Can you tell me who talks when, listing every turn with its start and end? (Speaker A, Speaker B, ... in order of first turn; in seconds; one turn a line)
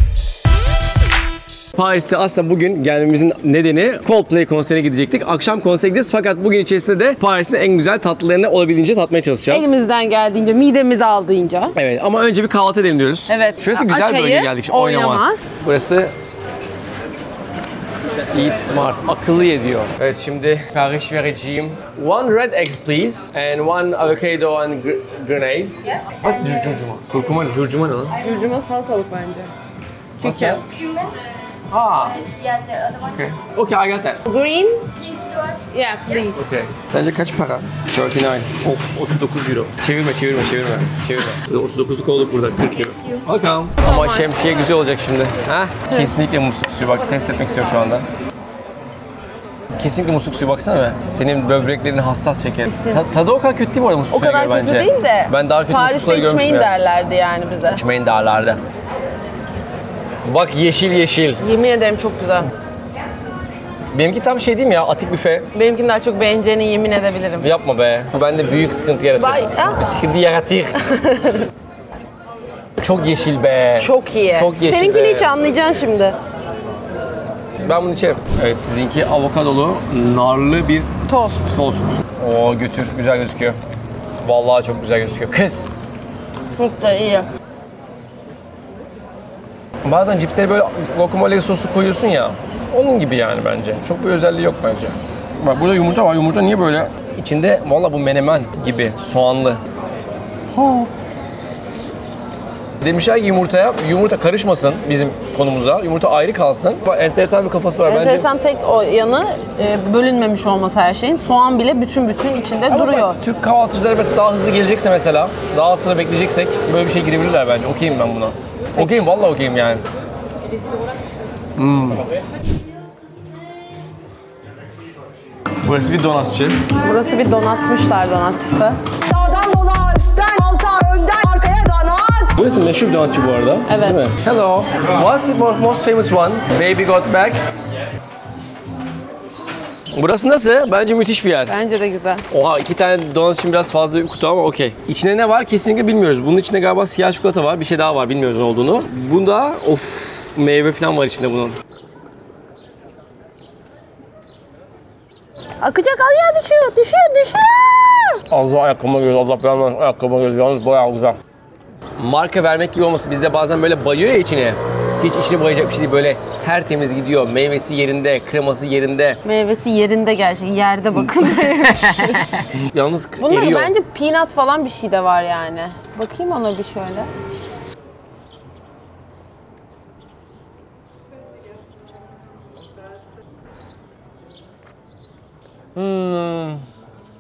Speaker A: 1.8-9.7
Speaker B: 9.5-11.7
Speaker A: 11.8-16.1
Speaker B: 13.3-15.4
Speaker A: 18.3-28.2
Speaker B: 28.2-29.5
Speaker B: 30.2-30.7
Speaker A: 30.2-30.6
Speaker A: 31.7-32.3
Speaker B: 32.2-33.0
Speaker A: 33.0-34.2
Speaker B: 34.2-36.4
Speaker A: 36.4-48.1
Speaker B: 43.8-44.3
Speaker A: 49.8-56.7
Speaker B: 52.7-53.1
Speaker B: 54.1-57.8
Speaker A: 57.7-58.6
Speaker A: 60.2-61.4
Speaker B: 61.4-62.5
Speaker A: 63.9-65.5
Speaker B: 65.5-67.5
Speaker A: 67.4-70.8
Speaker B: 69.2-70.0
Speaker B: 70.8-71.5
Speaker A: 72.8-75.3
Speaker B: 73.8-76.2
Speaker A: 77.6-80.9
Speaker B: 81.1-81.5
Speaker A: 81.5-83.6
Speaker A: 84.2-85.7
Speaker B: 86.6-87.3
Speaker A: 89.8-99.6
Speaker B: 100.6-100.9
Speaker A: 102.8-108.3
Speaker B: 107.9-113.2
Speaker A: 112.7-119.8
Speaker A: 121.6-122.0
Speaker A: 125.6-126.6
Speaker B: 126.8-128.8
Speaker C: 129.1-132.3
Speaker B: 131.5-132.0
Speaker A: 132.3-137.4
Speaker B: 133.7-134.0
Speaker A: 139.9-141.5
Speaker B: 141.5-142.3
Speaker A: 142.3-151.6
Speaker B: 155.6-158.2
Speaker A: 158.3-161.2
Speaker A: 162.0-169.2
Speaker B: 169.2-172.6
Speaker A: 170.9-173.7
Speaker B: 173.2-177.1
Speaker A: 185.8-186.6